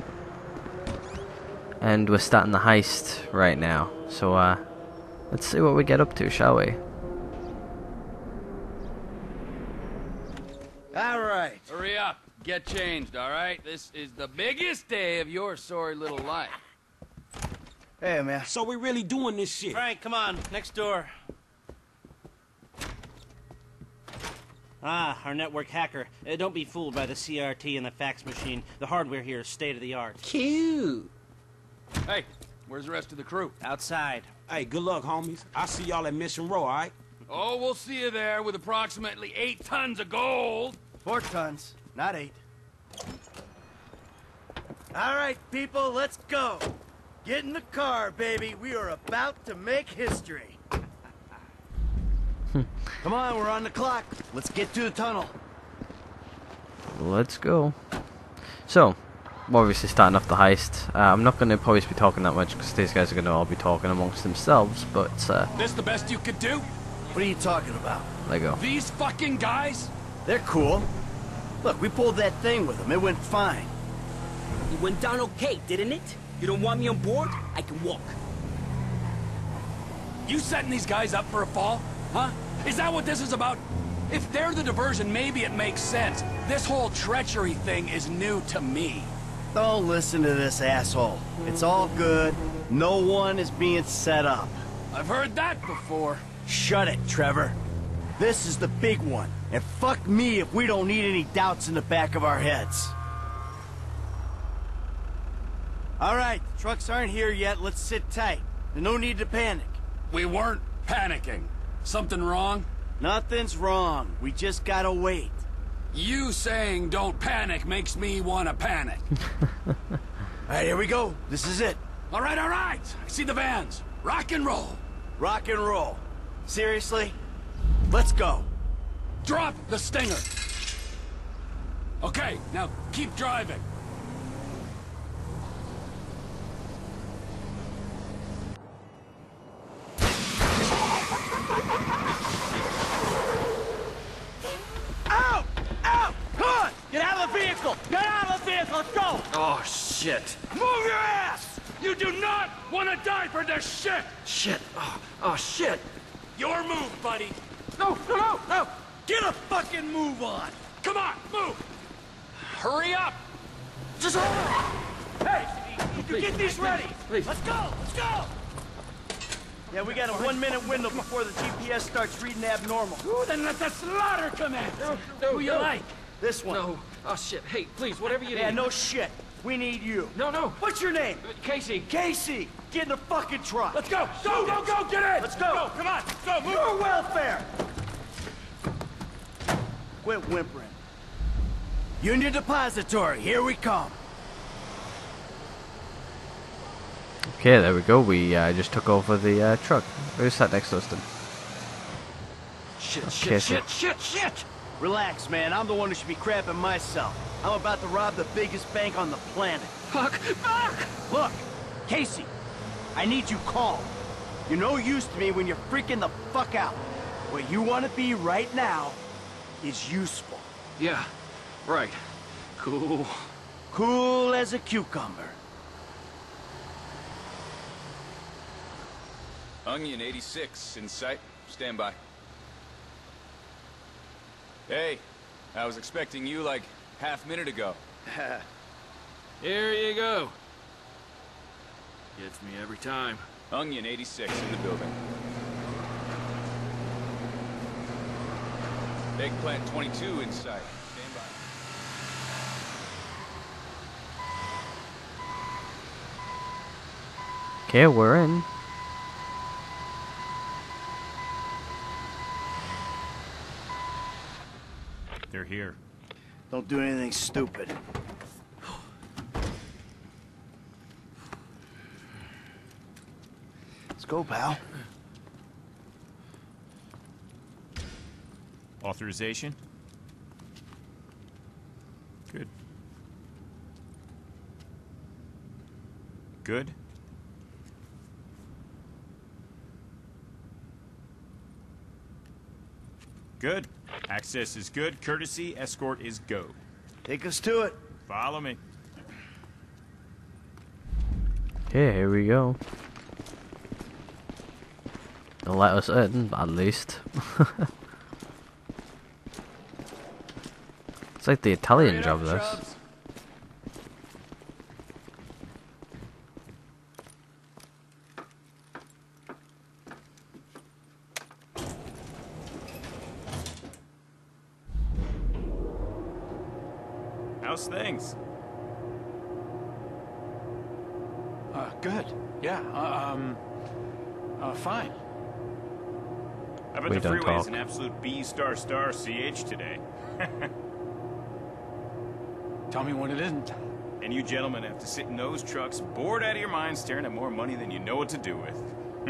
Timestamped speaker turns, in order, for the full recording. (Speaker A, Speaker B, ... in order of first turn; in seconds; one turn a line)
Speaker A: 1.8-4.6
Speaker A: 5.3-6.8
Speaker B: 10.9-11.7
Speaker C: 11.7-16.6
Speaker B: 18.0-18.5
Speaker D: 18.5-19.8
Speaker E: 19.7-21.1
Speaker E: 24.8-30.2
Speaker F: 30.2-31.1
Speaker C: 32.0-33.5
Speaker E: 33.6-34.3
Speaker D: 34.5-36.9
Speaker C: 37.3-40.8
Speaker B: 41.0-42.4
Speaker B: 44.9-46.7
Speaker B: 47.2-50.6
Speaker B: 53.0-55.4
Speaker A: 56.9-57.8
Speaker A: 58.6-65.5
Speaker C: 65.6-66.7
Speaker B: 67.1-68.1
Speaker A: 68.2-68.6
Speaker C: 68.5-69.9
Speaker B: 70.2-70.9
Speaker B: 71.6-73.7
Speaker F: 74.7-78.2
Speaker C: 80.2-89.1
Speaker B: 89.5-94.6
Speaker C: 94.9-96.2
Speaker B: 96.5-97.6
Speaker B: 98.2-102.9
Speaker B: 106.0-109.8
Speaker C: 110.1-112.7
Speaker B: 113.0-115.4
Speaker C: 115.9-119.0
Speaker B: 120.5-121.8
Speaker C: 122.1-124.8
Speaker B: 125.2-127.2
Speaker B: 127.9-128.5
Speaker C: 129.2-130.3
Speaker C: 132.0-133.6
Speaker B: 145.1-149.3
Speaker G: 149.3-150.4
Speaker B: 150.6-151.6
Speaker C: 151.6-154.2
Speaker G: 154.2-155.8
Speaker C: 156.3-157.4
Speaker G: 157.8-158.6
Speaker B: 159.0-160.6
Speaker C: 160.8-161.6
Speaker C: 162.4-163.2
Speaker B: 165.9-168.3
Speaker G: 166.1-167.3
Speaker B: 169.7-173.0
Speaker C: 173.0-175.9
Speaker G: 174.8-175.7
Speaker B: 176.2-176.7
Speaker G: 176.4-178.6
Speaker B: 178.3-181.3
Speaker G: 180.1-180.6
Speaker G: 181.2-181.9
Speaker B: 181.8-187.5
Speaker C: 183.7-185.6
Speaker B: 190.0-190.8
Speaker B: 192.0-194.0
Speaker A: 197.3-201.0
Speaker G: 202.8-204.4
Speaker A: 203.1-203.6
Speaker B: 204.8-209.7
Speaker G: 209.9-210.9
Speaker B: 211.1-212.3
Speaker B: 212.9-213.9
Speaker B: 214.5-219.0
Speaker B: 219.6-220.5
Speaker G: 220.8-221.1
Speaker G: 221.6-222.0
Speaker G: 222.6-223.3
Speaker B: 223.7-225.4
Speaker H: 229.6-232.0
Speaker H: 234.7-237.8
Speaker B: 238.1-238.4
Speaker G: 239.4-240.3
Speaker G: 242.2-243.2
Speaker H: 243.5-244.9
Speaker H: 249.2-251.4
Speaker A: 257.7-258.5
Speaker I: 265.3-265.8
Speaker B: 266.5-267.8
Speaker B: 274.0-274.6
Speaker I: 278.8-279.6
Speaker I: 286.4-286.8
Speaker I: 293.4-296.6
Speaker B: 297.0-297.8
Speaker I: 298.1-298.6
Speaker A: 301.7-302.6
Speaker A: 305.4-307.7
Speaker A: 311.2-312.6
Speaker C: 311.7-312.8
Speaker I: 327.4-328.1
Speaker I: 331.5-333.4
Speaker I: 334.4-334.9
Speaker I: 336.7-340.5
Speaker A: 336.9-337.6
Speaker I: 342.7-348.7